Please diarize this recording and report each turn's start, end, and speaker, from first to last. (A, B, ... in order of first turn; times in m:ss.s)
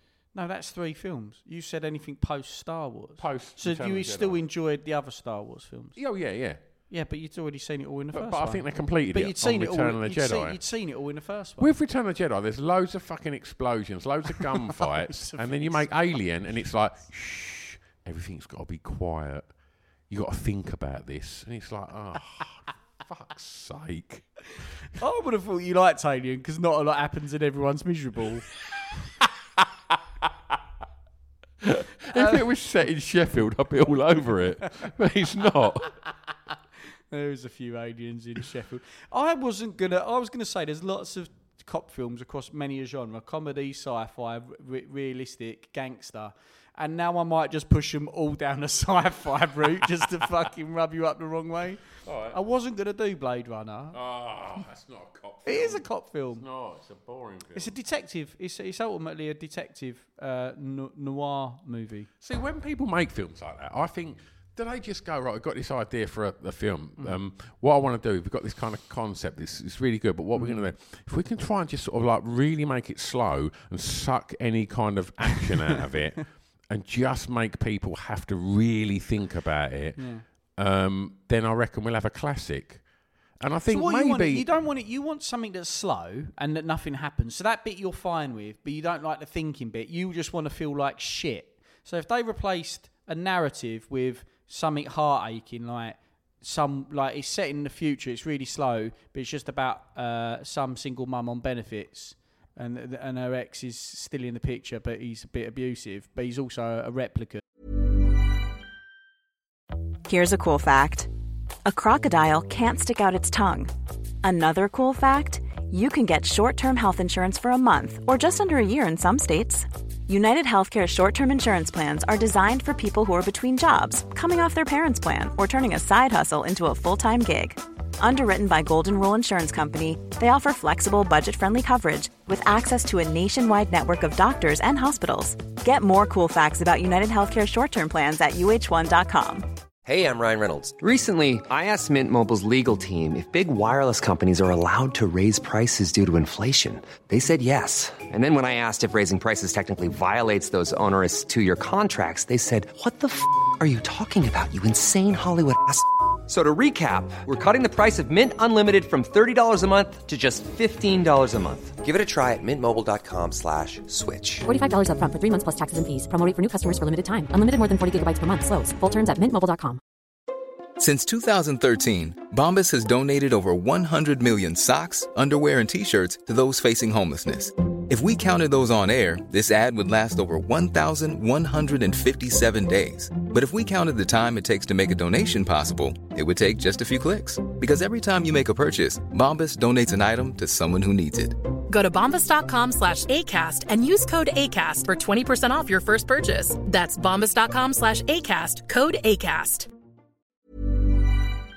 0:00.3-0:06.0 A
0:03.2-0:04.4 B
0:06.0-0:06.6 B
0:06.9-0:11.7 A
0:08.1-0:10.6 B
0:11.6-0:19.5 B
0:14.4-0:15.9 A
0:20.1-0:24.2 B
0:25.0-0:28.4 A
0:31.6-0:35.9 B
0:32.1-0:32.4 A
0:37.1-0:54.0 A
0:52.0-0:52.4 B
0:53.9-0:57.7 B
0:55.4-0:56.4 A
0:57.5-1:02.1 A
1:02.2-1:24.5 B
1:10.3-1:10.7 A
1:20.0-1:20.2 A
1:23.7-1:47.4 A
1:50.1-1:51.1 C
1:51.6-1:53.7 C
1:54.2-2:19.5 C
2:19.8-2:44.5 D
2:44.5-2:49.8 E
2:50.8-3:11.4 F
3:11.7-3:19.7 G